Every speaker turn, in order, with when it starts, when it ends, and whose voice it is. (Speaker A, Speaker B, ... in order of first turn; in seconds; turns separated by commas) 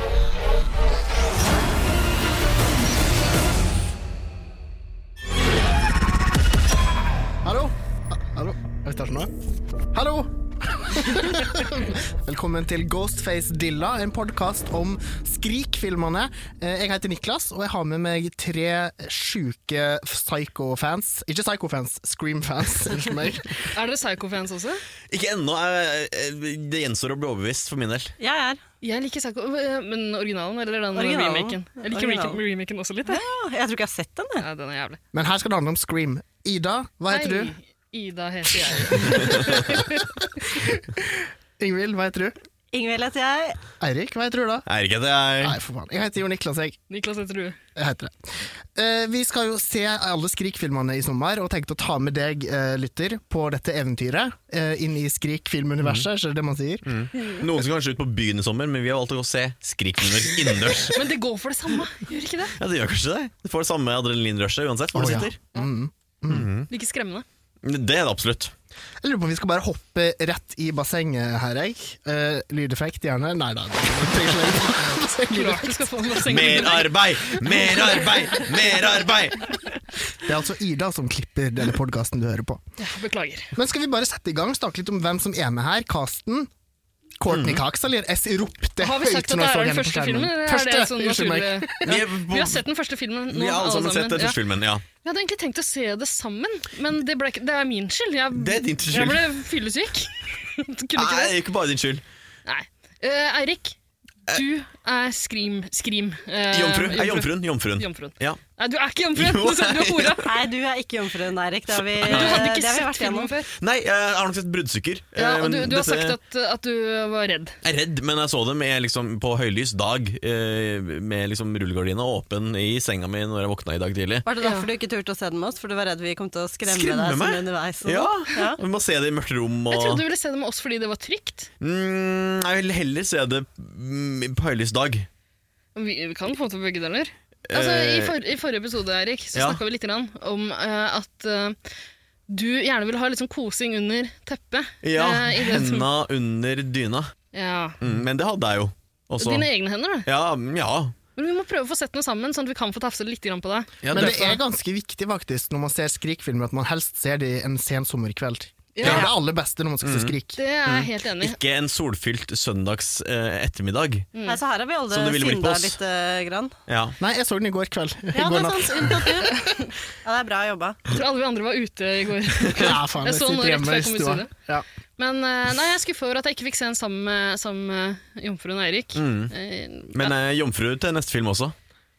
Speaker A: 7.4-9.3, Speaker A: 9.9-23.7, Speaker B: 23.7-24.8, Speaker C: 25.1-28.1, Speaker D: 28.2-28.6, Speaker B: 28.8-33.2, Speaker D: 30.9-32.4, Speaker D: 33.1-34.5, Speaker B: 34.4-35.0, Speaker A: 35.1-37.5, Speaker B: 37.1-40.1, Speaker A: 38.9-42.3, Speaker D: 42.7-43.6, Speaker A: 43.8-44.6, Speaker C: 44.7-45.6, Speaker A: 45.4-46.8, Speaker B: 46.9-47.6, Speaker A: 47.8-56.9, Speaker C: 56.8-61.1, Speaker B: 60.9-62.5, Speaker C: 62.6-65.4, Speaker A: 64.9-66.5, Speaker C: 66.3-66.7, Speaker B: 66.7-67.2, Speaker C: 67.6-68.5, Speaker A: 69.0-76.1, Speaker B: 75.3-77.0, Speaker C: 76.2-79.5, Speaker A: 80.2-82.6, Speaker B: 82.8-83.5, Speaker A: 83.5-86.5, Speaker A: 87.2-92.0, Speaker C: 87.3-87.6, Speaker B: 88.8-94.4, Speaker C: 91.8-92.6, Speaker C: 93.3-94.8, Speaker B: 95.0-101.3, Speaker C: 98.3-99.4, Speaker C: 101.0-102.0, Speaker B: 102.5-103.8, Speaker B: 104.3-110.3, Speaker C: 106.5-108.4, Speaker C: 109.1-110.2, Speaker D: 110.2-113.3, Speaker C: 111.7-112.5, Speaker B: 112.0-113.5, Speaker C: 113.5-116.2, Speaker B: 115.2-117.6, Speaker C: 117.6-124.2, Speaker D: 124.2-128.6, Speaker B: 124.4-124.7, Speaker C: 126.7-130.0, Speaker B: 129.7-131.5, Speaker C: 131.6-135.1, Speaker B: 135.8-141.6, Speaker C: 137.5-138.1, Speaker C: 139.3-139.6, Speaker B: 142.3-145.9, Speaker C: 144.8-147.1, Speaker B: 147.3-147.8, Speaker C: 147.8-149.5, Speaker B: 149.2-150.1, Speaker C: 150.1-150.9, Speaker B: 151.2-154.4, Speaker C: 153.8-154.2, Speaker A: 153.9-160.4, Speaker B: 158.7-159.1, Speaker C: 158.8-159.1, Speaker C: 159.8-160.1, Speaker B: 160.3-161.4, Speaker C: 160.7-164.1, Speaker B: 164.1-164.4, Speaker D: 164.2-166.6, Speaker C: 164.9-165.8, Speaker C: 166.7-167.0, Speaker A: 167.0-169.3, Speaker D: 168.1-169.4, Speaker D: 170.0-170.8, Speaker B: 170.9-174.3, Speaker A: 172.5-174.6, Speaker B: 175.0-180.1, Speaker C: 178.9-179.3, Speaker C: 179.9-181.5